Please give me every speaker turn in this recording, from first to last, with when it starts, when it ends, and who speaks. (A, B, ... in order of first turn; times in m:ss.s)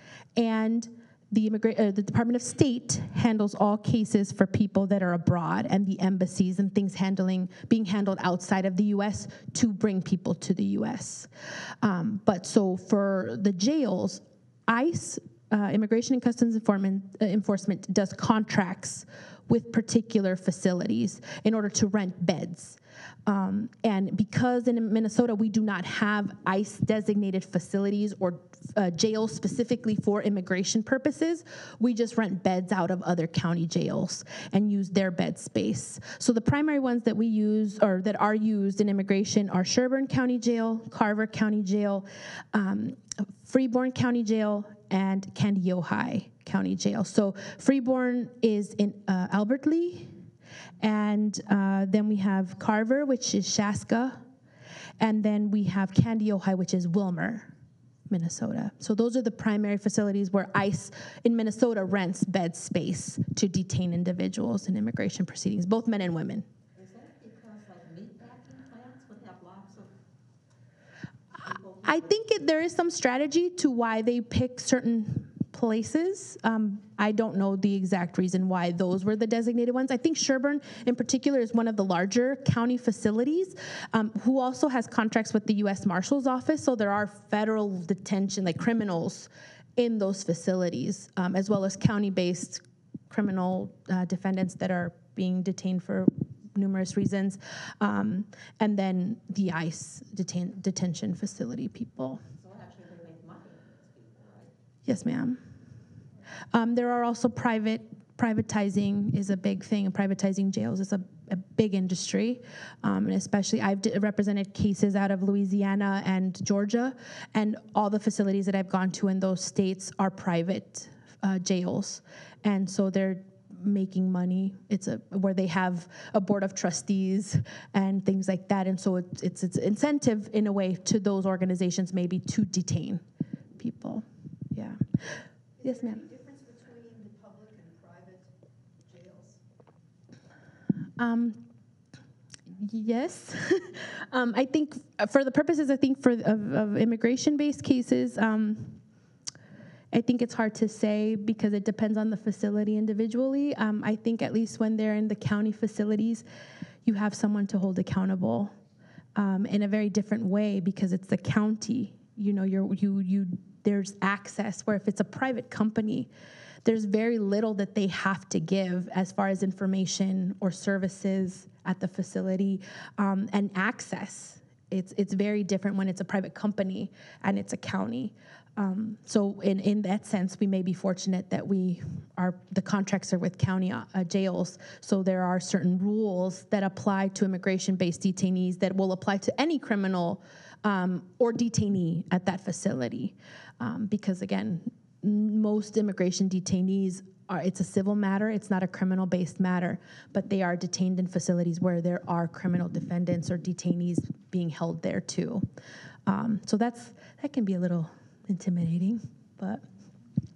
0:00.4-0:11.3 A
0:11.8-0:50.1 A
0:50.8-0:54.2 A
0:55.0-0:57.5 A
0:58.1-1:06.4 A
1:06.7-1:09.9 B
1:11.4-1:12.1 B
1:11.8-1:42.2 A
1:42.4-1:44.5 B
1:44.8-1:45.4 A
1:46.5-2:13.0 A
2:13.6-2:14.8 A
2:15.6-2:18.3 C
2:15.6-2:16.0 A
2:18.8-2:19.4 C
2:21.0-2:21.4 A
2:22.6-2:28.8 A
2:29.9-2:36.2 A
2:36.8-2:38.5 A
2:39.2-2:46.1 A
2:46.6-3:25.4 A
3:26.0-3:29.6 A